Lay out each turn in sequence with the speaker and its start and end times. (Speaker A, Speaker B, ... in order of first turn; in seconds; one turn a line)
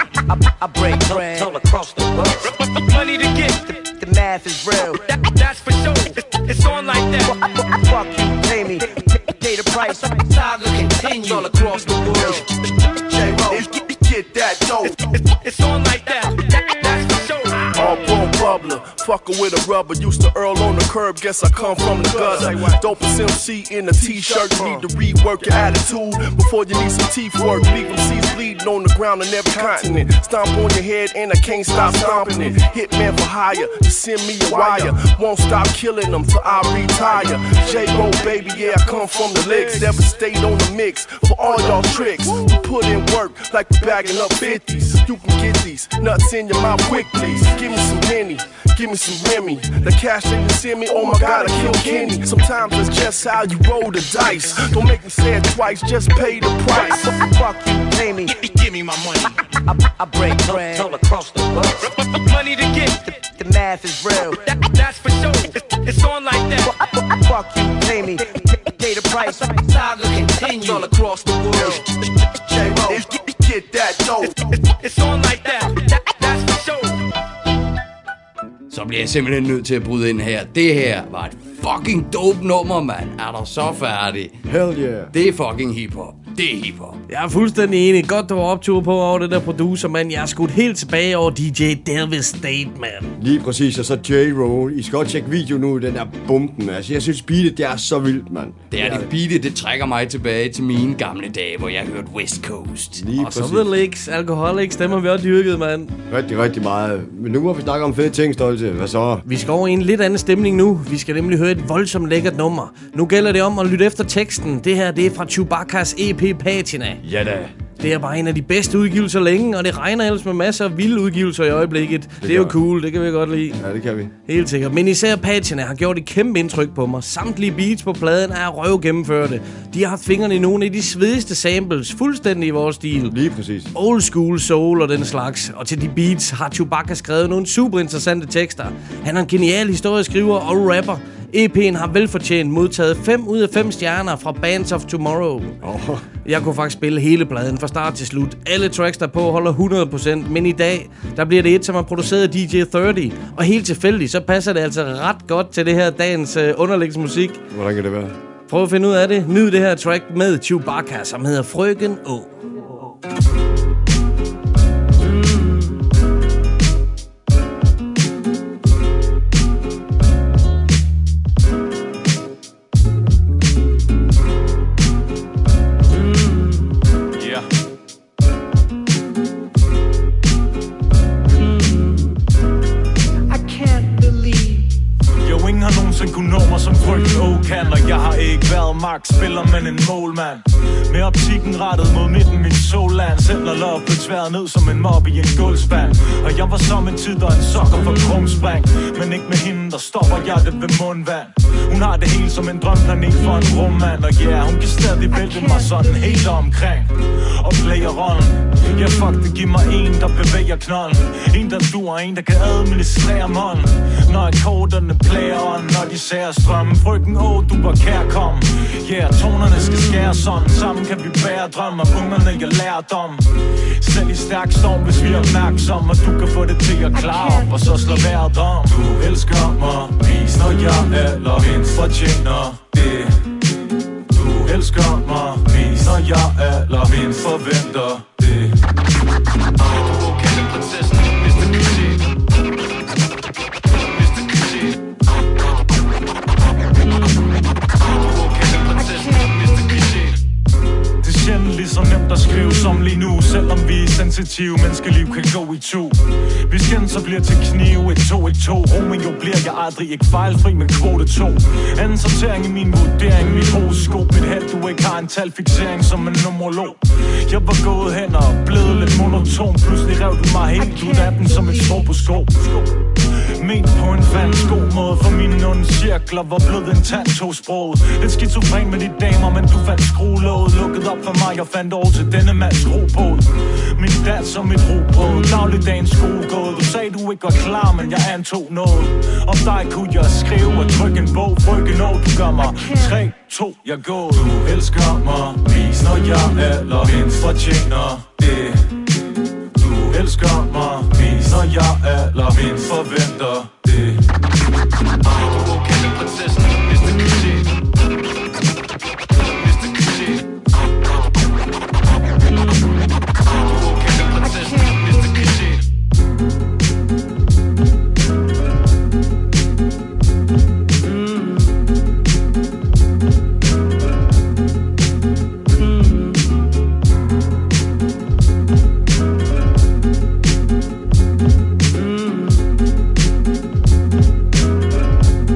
Speaker A: 0.3-1.5
Speaker B: 1.1-3.7
Speaker A: 3.9-5.0
Speaker B: 5.0-7.3
Speaker A: 7.3-10.2
Speaker B: 10.6-12.4
Speaker C: 11.4-12.4
Speaker C: 13.3-15.0
Speaker B: 14.8-17.6
Speaker C: 17.7-57.0
Speaker D: 21.9-22.7
Speaker B: 24.5-24.8
Speaker D: 31.8-32.5
Speaker D: 39.4-39.9
Speaker D: 51.1-52.1
Speaker A: 56.7-58.5
Speaker D: 58.6-59.3
Speaker A: 59.6-60.9
Speaker B: 60.4-63.2
Speaker A: 63.3-64.4
Speaker B: 64.4-66.7
Speaker A: 66.7-69.5
Speaker B: 69.2-71.8
Speaker C: 71.5-71.8
Speaker C: 72.6-74.4
Speaker B: 74.5-77.0
Speaker E: 78.7-84.4
Speaker F: 84.4-85.1
Speaker E: 85.1-87.0
Speaker G: 87.1-93.1
Speaker F: 93.2-99.1
Speaker E: 98.7-103.1
Speaker F: 102.9-103.7
Speaker G: 103.2-105.9
Speaker F: 106.1-109.2
Speaker G: 109.2-117.0
Speaker F: 117.0-117.5
Speaker G: 117.8-123.6
Speaker F: 122.2-122.6
Speaker F: 123.5-124.1
Speaker G: 124.2-133.1
Speaker F: 133.1-133.7
Speaker G: 133.7-145.6
Speaker F: 145.6-146.1
Speaker G: 146.2-157.4
Speaker F: 157.5-158.1
Speaker G: 158.5-162.3
Speaker H: 177.2-177.4
Speaker H: 185.2-223.2
Speaker H: 223.8-233.2
Speaker H: 234.1-238.6
Speaker H: 240.3-240.6
Speaker H: 244.2-244.5
Speaker H: 248.5-250.1
Speaker H: 251.0-272.7
Speaker H: 273.4-298.6
Speaker H: 299.6-304.0